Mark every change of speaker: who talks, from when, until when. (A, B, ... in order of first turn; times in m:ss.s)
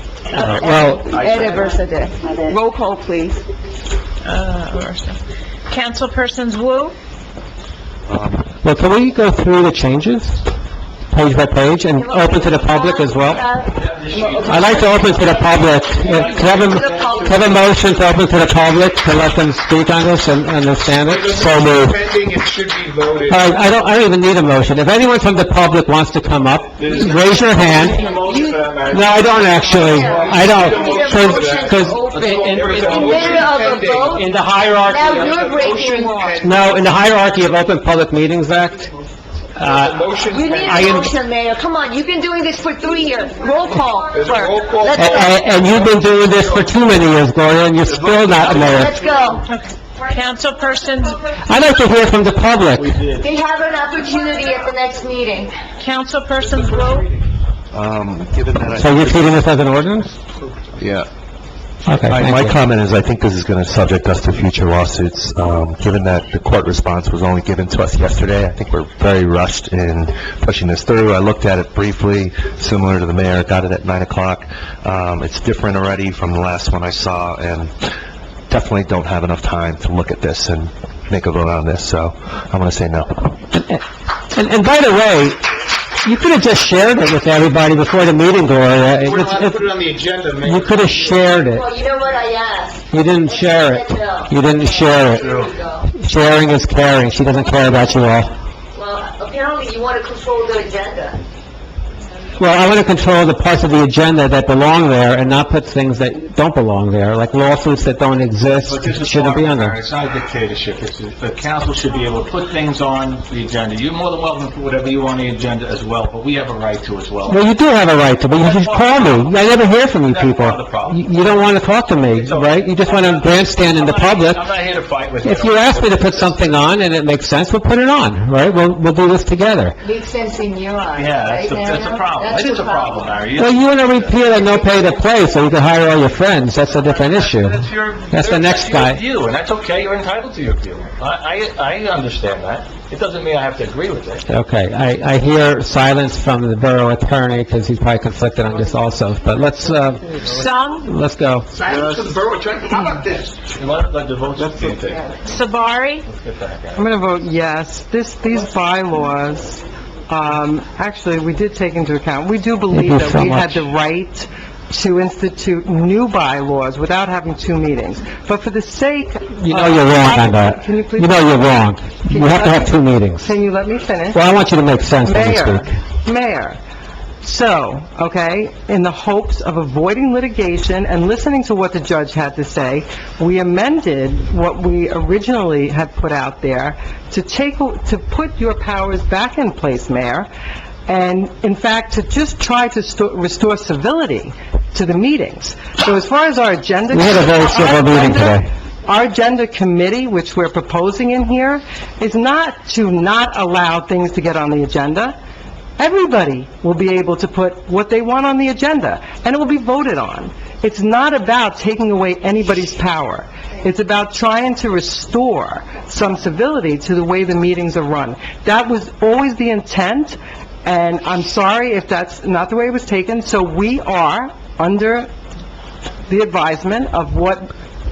0:00.3-0:01.1 A
0:00.3-0:03.4 B
0:01.0-0:01.8 C
0:04.2-0:05.2 D
0:05.7-0:06.9 D
0:08.1-0:08.4 E
0:08.6-0:10.4 A
0:11.1-0:13.4 A
0:12.0-0:17.6 B
0:13.7-0:17.6 C
0:14.4-0:22.0 A
0:21.0-0:23.5 F
0:23.3-0:28.0 A
0:26.8-0:30.6 C
0:27.8-0:28.6 B
0:28.9-0:33.4 A
0:29.6-0:34.2 F
0:29.7-0:36.4 B
0:32.6-0:33.5 C
0:34.0-0:35.4 A
0:34.9-0:36.7 F
0:36.4-0:38.9 A
0:39.6-0:40.0 A
0:39.6-0:41.1 F
0:40.2-0:45.3 B
0:40.6-0:41.0 A
0:44.1-0:46.7 F
0:44.9-0:49.0 A
0:47.8-0:49.4 F
0:48.4-0:49.4 B
0:49.5-0:51.2 D
0:50.0-0:51.7 B
0:51.4-0:52.9 A
0:52.7-0:53.3 C
0:53.2-0:55.6 B
0:55.8-0:57.1 D
0:56.4-0:57.2 F
0:57.7-0:59.4 E
0:58.8-1:00.1 A
1:00.8-1:01.1 E
1:01.8-1:02.6 A
1:02.0-1:17.9 E
1:18.5-1:23.3 E
1:23.5-1:25.4 A
1:26.0-1:29.7 A
1:29.0-1:31.2 F
1:30.4-1:31.6 A
1:31.1-1:35.9 B
1:32.9-1:35.4 A
1:35.9-1:38.3 A
1:38.7-1:41.2 B
1:42.4-1:49.7 A
1:48.6-1:57.4 C
1:57.3-2:04.4 A
1:58.3-1:59.4 C
2:00.0-2:01.5 C
2:02.1-2:06.7 C
2:05.2-2:09.8 A
2:09.8-2:13.1 B
2:10.9-2:14.8 C
2:13.4-2:19.0 A
2:16.8-2:24.2 C
2:24.3-2:30.2 A
2:30.3-2:30.8 D
2:30.8-2:31.5 A
2:31.5-2:33.4 F
2:31.7-2:32.1 C
2:33.5-2:35.2 C
2:34.4-2:34.7 F
2:35.2-2:36.0 D
2:36.0-2:36.9 C
2:36.8-2:54.2 G
2:42.7-2:43.6 A
2:49.4-2:53.3 A
2:54.1-2:55.7 A
2:55.0-2:56.6 G
2:57.2-3:10.3 G
3:10.9-3:25.1 G
3:16.9-3:18.5 A
3:25.8-3:45.1 G
3:46.1-3:47.5 G